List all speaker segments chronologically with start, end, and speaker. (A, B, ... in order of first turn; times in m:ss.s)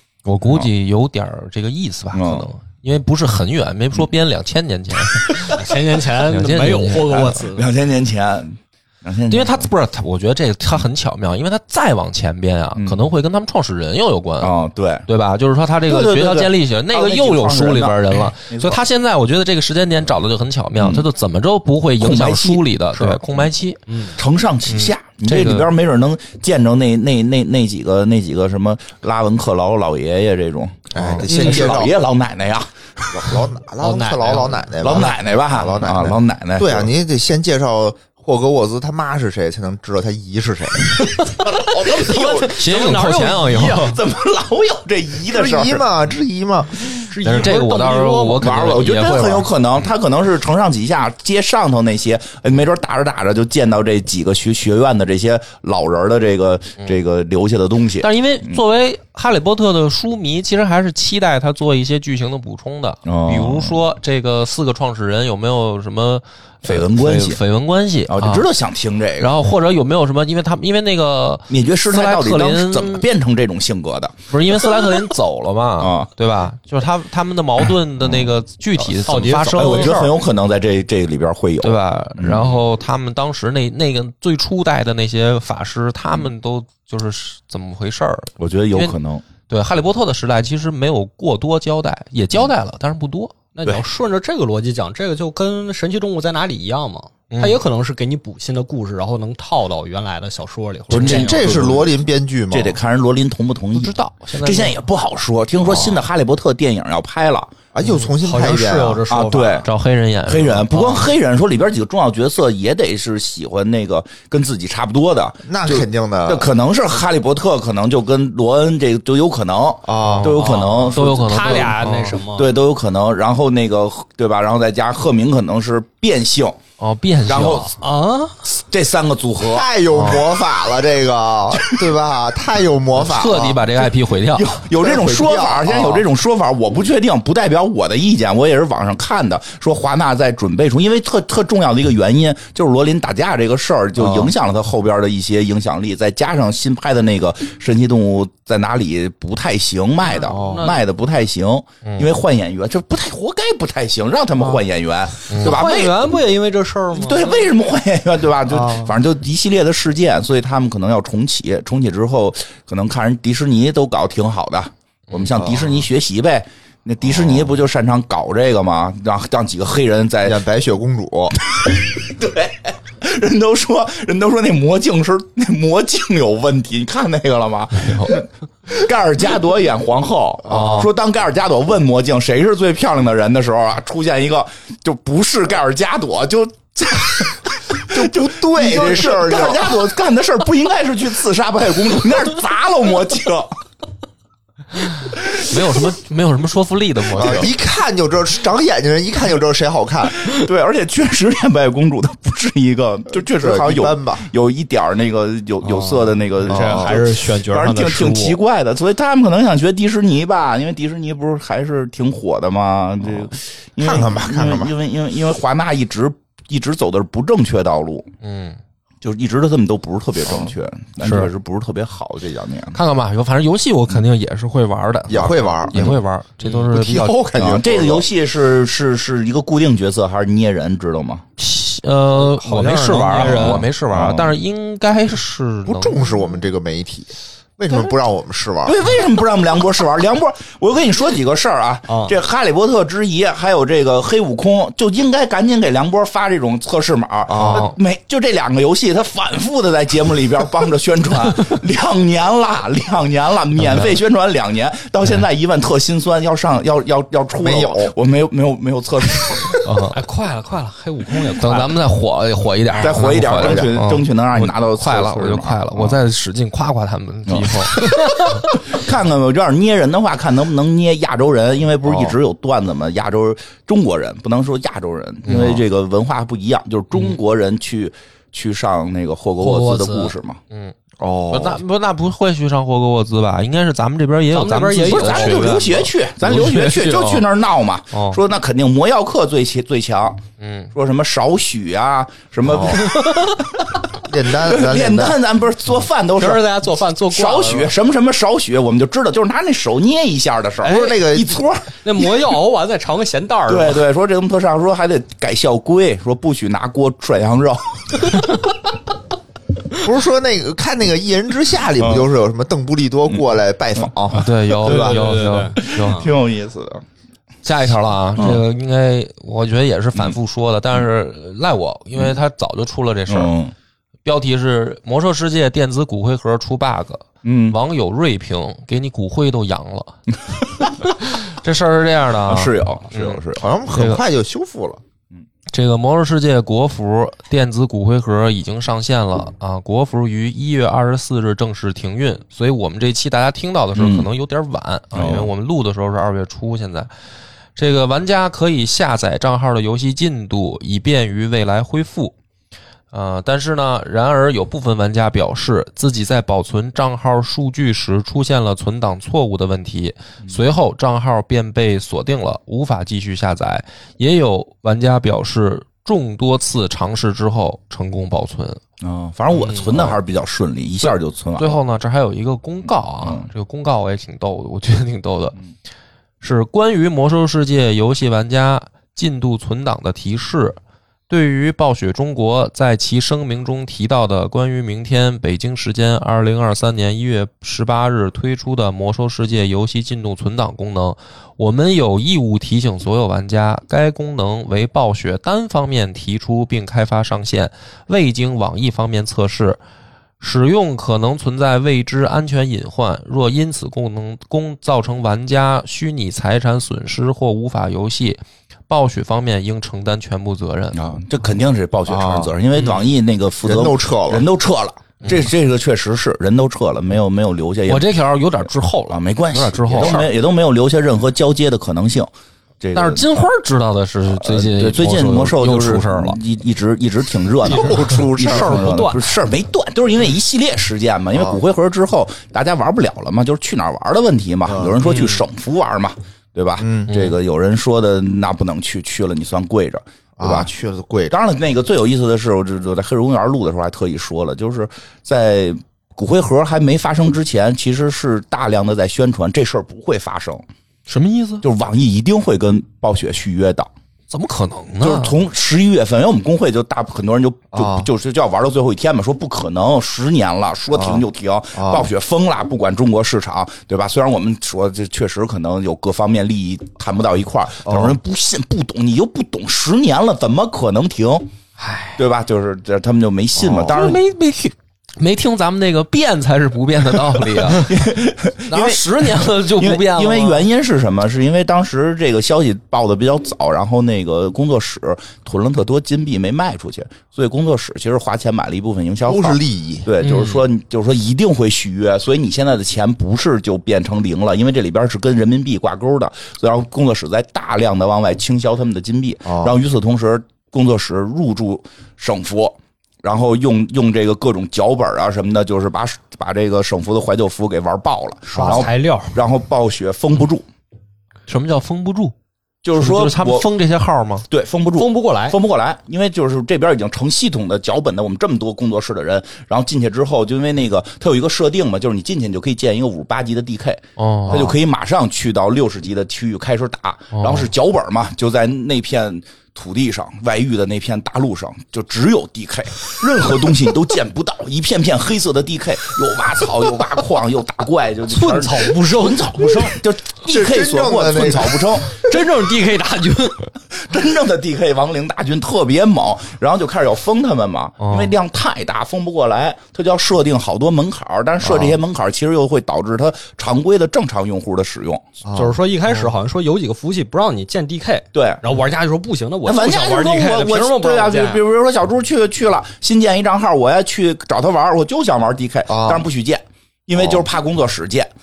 0:00.3-0:05.5 A
0:00.4-0:00.7 B
0:02.1-0:02.5 B
0:05.5-0:07.7 C
0:06.3-0:07.3 A
0:07.0-0:09.7 B
0:09.3-0:14.5 A
0:12.8-0:13.0 B
0:14.4-0:15.0 B
0:15.1-0:23.8 A
0:15.9-0:18.8 B
0:20.8-0:21.1 B
0:22.0-0:22.6 B
0:23.0-0:23.2 C
0:23.9-0:24.2 C
0:24.2-0:33.4 B
0:24.7-0:25.7 A
0:30.9-0:32.0 D
0:31.0-0:31.2 A
0:33.1-0:41.0 D
0:33.8-0:34.7 C
0:34.8-0:36.9 B
0:41.0-0:44.0 C
0:41.4-0:42.6 B
0:42.5-0:43.9 A
0:43.7-0:45.9 B
0:45.3-0:46.9 D
0:47.1-0:48.8 C
0:47.2-0:49.5 A
0:48.4-0:58.6 B
0:58.0-1:08.5 A
1:03.0-1:03.8 B
1:06.6-1:07.4 B
1:08.1-1:09.3 B
1:09.2-1:13.1 A
1:11.5-1:14.9 B
1:14.3-1:20.0 A
1:15.8-1:16.1 B
1:18.0-1:18.3 B
1:18.9-1:20.1 C
1:19.6-1:22.6 B
1:21.6-1:29.0 A
1:28.4-1:29.2 B
1:29.5-1:33.4 A
1:33.6-1:41.7 C
1:37.3-1:37.6 A
1:40.9-1:41.9 B
1:41.0-1:42.8 D
1:42.5-1:47.6 B
1:43.8-1:44.7 A
1:47.7-1:49.0 D
1:47.8-1:49.7 C
1:49.1-1:49.7 B
1:49.6-1:50.8 A
1:50.3-2:01.8 B
1:50.7-1:51.1 C
1:55.5-1:56.5 D
1:59.8-2:00.4 D
2:00.0-2:02.2 A
2:00.9-2:02.5 C
2:02.4-2:06.6 B
2:06.8-2:07.7 A
2:07.3-2:07.7 B
2:07.8-2:08.4 C
2:08.5-2:09.7 B
2:09.4-2:13.7 D
2:09.9-2:10.2 A
2:11.5-2:11.9 B
2:13.0-2:14.6 A
2:14.3-2:36.0 B
2:14.7-2:16.1 D
2:24.0-2:24.3 D
2:30.0-2:30.8 C
2:30.3-2:30.7 D
2:31.8-2:32.1 A
2:35.3-2:35.6 A
2:35.4-2:37.5 C
2:36.9-2:50.4 B
2:38.5-2:39.0 D
2:45.4-2:45.8 D
2:50.2-2:51.4 D
2:51.5-3:13.6 B
3:00.5-3:00.9 D
3:00.5-3:00.9 A
3:07.9-3:09.8 D
3:15.3-3:15.5 B
3:15.3-3:17.5 A
3:17.2-3:20.2 D
3:20.2-3:38.1 B
3:23.2-3:24.3 D
3:25.6-3:28.4 C
3:26.5-3:27.0 D
3:33.8-3:34.7 D
3:38.2-3:38.6 A
3:39.0-3:42.8 B
3:41.0-3:41.3 A
3:42.7-3:47.3 A
3:45.1-3:46.0 D
3:46.7-3:48.1 D
3:47.4-3:51.2 B
3:51.4-3:56.2 A
3:52.2-3:53.7 C
3:53.0-3:54.4 B
3:55.7-3:58.9 D
3:58.6-4:19.6 B
4:01.9-4:02.2 C
4:07.3-4:07.7 D
4:07.4-4:07.8 A
4:13.6-4:14.0 A
4:17.4-4:17.9 D
4:19.6-4:20.0 A
4:19.9-4:21.8 C
4:21.4-4:28.4 A
4:22.8-4:26.0 B
4:23.3-4:23.7 D
4:27.3-4:40.4 B
4:31.8-4:32.2 D
4:35.3-4:35.6 A
4:39.4-4:40.1 C
4:40.5-4:40.8 A
4:41.0-4:41.6 D
4:41.3-4:47.3 A
4:44.3-4:45.9 C
4:44.8-4:50.2 B
4:50.4-4:50.7 A
4:50.7-4:53.6 B
4:52.4-4:53.0 D
4:54.0-4:55.2 D
4:54.3-4:56.6 B
4:56.2-4:57.7 C
4:57.1-5:02.2 B
5:00.6-5:01.0 C
5:00.6-5:01.4 D
5:01.8-5:03.8 C
5:03.5-5:08.4 B
5:09.8-5:14.3 D
5:11.8-5:12.1 B
5:13.8-5:16.8 B
5:14.1-5:16.0 A
5:14.6-5:16.1 C
5:17.4-5:23.3 A
5:18.2-5:18.4 B
5:23.1-5:23.5 B
5:24.0-5:30.0 A
5:27.2-5:27.6 B
5:30.6-5:34.0 A
5:32.3-5:33.4 B
5:33.4-5:34.8 D
5:35.5-5:46.9 A
5:43.8-5:44.1 B
5:44.9-5:45.3 B
5:47.6-5:52.2 A
5:52.9-6:08.6 A
6:08.8-6:11.6 B
6:09.4-6:09.7 C
6:10.8-6:15.4 A
6:13.0-6:13.3 B
6:16.2-6:39.6 A
6:40.2-6:51.0 A
6:50.7-6:57.9 B
6:51.9-6:52.3 D
6:53.4-6:54.3 D
6:55.0-6:55.3 A
6:57.7-7:00.1 A
6:58.9-7:02.1 B
7:02.6-7:03.1 B
7:02.8-7:06.2 A
7:04.1-7:20.5 B
7:07.5-7:09.1 C
7:07.5-7:08.8 D
7:11.1-7:11.4 D
7:14.5-7:14.8 D
7:14.8-7:15.2 C
7:16.6-7:16.9 D
7:16.9-7:17.2 A
7:20.2-7:21.1 D
7:21.1-7:30.4 B
7:30.9-7:31.4 A
7:31.4-7:33.7 B
7:34.1-7:35.2 A
7:34.8-7:51.3 B
7:37.5-7:37.9 D
7:40.7-7:41.0 D
7:41.6-7:41.9 D
7:47.6-7:48.0 D
7:51.6-7:52.0 C
7:52.0-7:54.0 B
7:53.4-7:53.8 D
7:53.7-7:57.8 A
7:57.2-8:30.5 B
7:58.5-8:00.4 A
8:09.1-8:09.9 D
8:10.0-8:10.4 A
8:19.3-8:19.6 D
8:28.3-8:29.2 C
8:28.4-8:28.7 D
8:31.3-8:32.1 A
8:32.6-8:33.5 B
8:32.7-8:34.2 A
8:34.3-9:02.1 B
8:34.8-8:35.4 C
8:44.0-8:44.5 A
8:47.1-8:47.5 A
8:58.1-8:59.8 C
9:00.3-9:01.8 D
9:01.9-9:03.5 C
9:03.7-9:15.0 B
9:07.8-9:08.1 A
9:11.4-9:11.8 D
9:15.2-9:15.6 D
9:15.3-9:21.4 C
9:18.1-9:18.4 B
9:19.4-9:28.1 B
9:25.7-9:26.1 D
9:27.0-9:27.2 D